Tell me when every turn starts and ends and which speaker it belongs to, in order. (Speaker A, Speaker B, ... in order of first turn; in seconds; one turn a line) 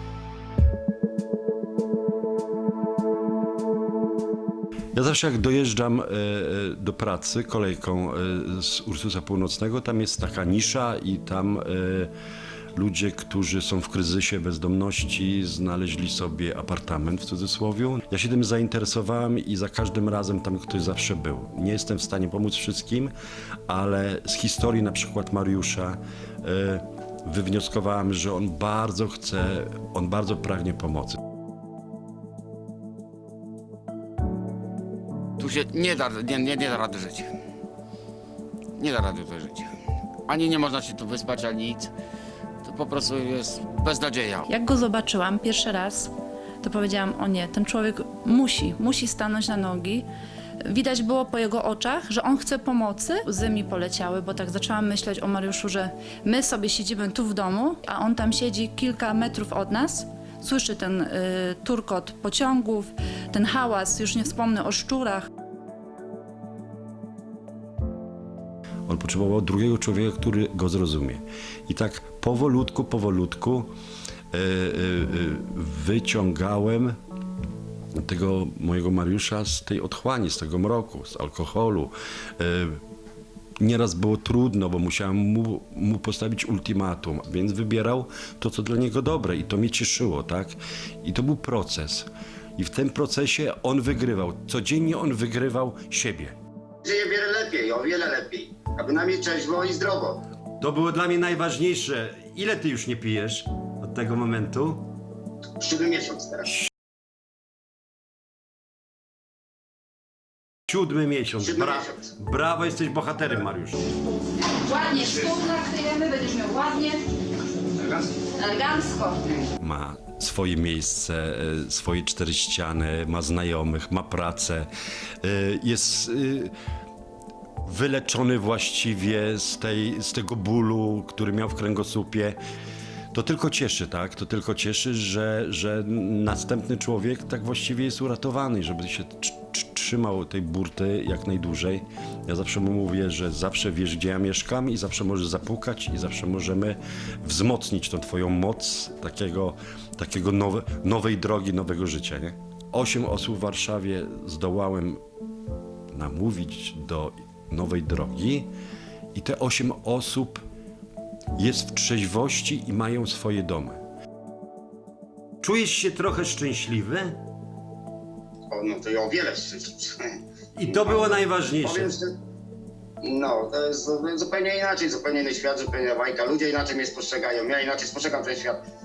Speaker A: 5.0-12.1
Speaker A: 12.8-23.1
Speaker A: 23.7-31.2
Speaker B: 35.4-37.3
Speaker B: 38.8-39.7
Speaker B: 40.3-41.9
Speaker B: 42.6-44.5
Speaker C: 44.5-46.1
Speaker C: 46.6-50.0
Speaker C: 50.7-65.3
Speaker A: 68.9-73.7
Speaker A: 74.3-77.0
Speaker A: 78.0-82.8
Speaker A: 83.6-96.3
Speaker D: 96.8-100.2
Speaker A: 100.6-104.9
Speaker D: 105.6-106.5
Speaker A: 110.7-113.8
Speaker C: 114.5-117.0
Speaker C: 118.3-119.3
Speaker A: 119.6-124.7
Speaker A: 125.2-126.5
Speaker A: 127.6-132.4
Speaker A: 133.1-155.0
Speaker A: 155.9-158.5
Speaker A: 159.1-160.4
Speaker A: 161.4-163.8
Speaker A: 165.4-167.2
Speaker D: 168.5-170.1
Speaker A: 170.6-171.9
Speaker D: 171.7-172.0
Speaker D: 173.0-178.6